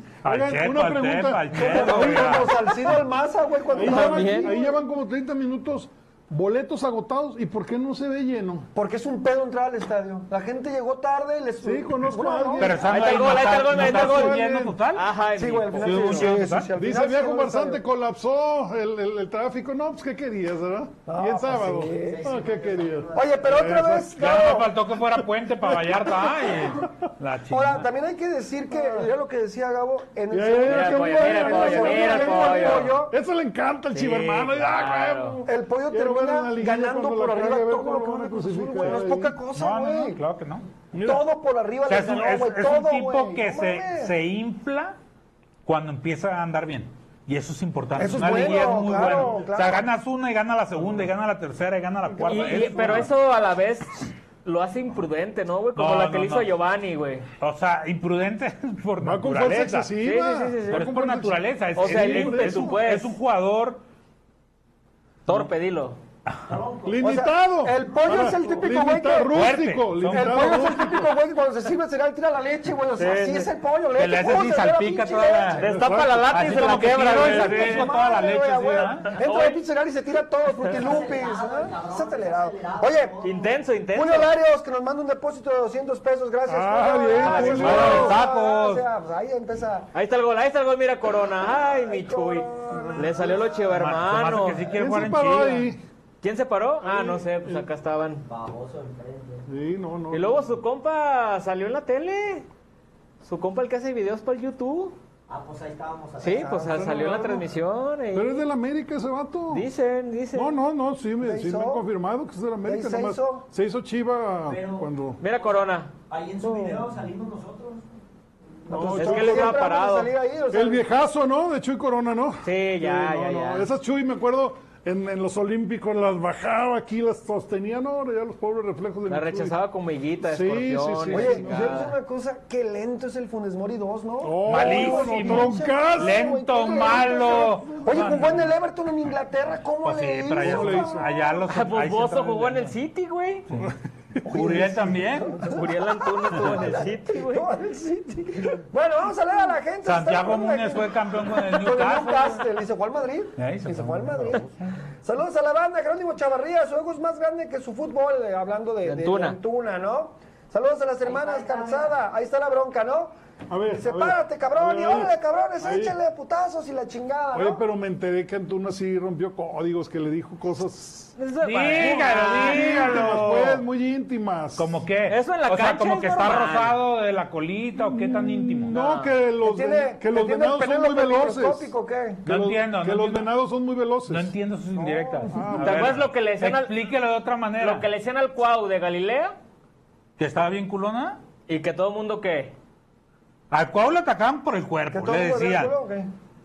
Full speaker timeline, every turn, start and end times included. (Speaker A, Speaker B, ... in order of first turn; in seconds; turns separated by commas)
Speaker A: 0.2-2.5, Speaker B: 0.2-3.0, Speaker C: 1.5-4.8, Speaker A: 3.7-8.7, Speaker D: 3.8-4.5, Speaker C: 8.7-12.8, Speaker A: 11.6-14.8, Speaker B: 12.6-15.0, Speaker D: 12.8-14.4, Speaker D: 14.9-16.2, Speaker C: 15.3-17.8, Speaker B: 15.8-16.7, Speaker A: 16.2-24.2, Speaker C: 21.1-22.3, Speaker E: 22.0-23.5, Speaker C: 23.1-24.7, Speaker B: 24.1-27.9, Speaker A: 25.6-26.9, Speaker C: 27.5-33.1, Speaker A: 30.3-39.4, Speaker D: 30.6-33.0, Speaker D: 33.9-35.4, Speaker C: 35.5-40.2, Speaker B: 39.5-40.6, Speaker A: 40.9-41.3, Speaker C: 41.0-44.1, Speaker B: 41.9-45.0, Speaker B: 45.6-53.1, Speaker C: 48.0-49.8, Speaker A: 49.0-49.4, Speaker D: 52.2-57.3, Speaker A: 52.3-53.1, Speaker B: 55.8-56.5, Speaker B: 57.4-59.9, Speaker A: 59.0-62.8, Speaker D: 60.0-60.9, Speaker B: 60.7-63.8, Speaker D: 61.8-63.1, Speaker D: 65.2-66.0, Speaker E: 66.5-67.0, Speaker A: 66.8-71.1, Speaker C: 67.0-69.3, Speaker B: 69.3-70.6, Speaker C: 70.1-75.7, Speaker D: 73.0-73.5, Speaker B: 74.0-75.7, Speaker D: 75.6-77.9, Speaker A: 75.6-76.6, Speaker B: 76.3-79.1, Speaker C: 77.1-83.2, Speaker D: 79.2-79.6, Speaker E: 80.7-83.6, Speaker D: 83.2-84.3, Speaker C: 83.9-89.9, Speaker A: 86.5-88.2, Speaker D: 87.1-88.2, Speaker B: 87.6-88.8, Speaker D: 89.9-94.7, Speaker C: 91.5-93.6, Speaker A: 92.7-93.1, Speaker B: 93.7-95.7, Speaker A: 94.7-95.8, Speaker D: 96.2-98.2, Speaker A: 96.8-97.5, Speaker E: 98.2-99.5, Speaker A: 99.5-100.5, Speaker D: 100.1-102.5, Speaker D: 103.2-105.0, Speaker E: 105.3-106.7, Speaker D: 106.2-108.4, Speaker C: 106.4-107.2, Speaker A: 106.7-107.5, Speaker A: 108.1-109.7, Speaker D: 109.5-110.5, Speaker A: 110.3-115.2, Speaker C: 111.2-111.8, Speaker C: 112.6-113.4, Speaker E: 114.4-115.5, Speaker D: 115.2-115.9, Speaker E: 116.1-117.8, Speaker C: 116.4-116.8, Speaker E: 118.6-118.9, Speaker A: 118.7-119.6, Speaker C: 118.7-120.8, Speaker D: 118.9-120.1, Speaker A: 120.5-129.6, Speaker D: 122.4-123.7, Speaker D: 129.1-131.9, Speaker A: 130.2-131.8, Speaker C: 131.1-141.3, Speaker A: 134.2-136.3, Speaker B: 134.5-138.5, Speaker B: 139.8-142.7, Speaker A: 140.4-141.1, Speaker D: 141.5-143.5, Speaker C: 144.2-163.1, Speaker B: 144.3-145.4, Speaker D: 145.4-147.5, Speaker B: 149.8-152.6, Speaker B: 153.4-154.5, Speaker D: 158.8-159.4, Speaker E: 161.0-161.9, Speaker A: 163.5-166.0, Speaker C: 163.8-167.6, Speaker A: 167.3-171.2, Speaker D: 171.2-173.1, Speaker B: 171.4-173.6, Speaker A: 171.8-174.7, Speaker B: 174.6-178.8, Speaker D: 175.1-176.8, Speaker A: 177.8-181.7, Speaker D: 178.7-179.1, Speaker C: 179.4-182.2, Speaker A: 182.2-184.3, Speaker B: 182.2-183.3, Speaker B: 184.1-187.8, Speaker C: 184.8-185.6, Speaker A: 185.3-186.0, Speaker D: 185.6-186.8, Speaker D: 187.6-189.3, Speaker B: 190.2-191.2, Speaker D: 191.5-192.5, Speaker B: 193.5-195.7, Speaker C: 194.9-196.1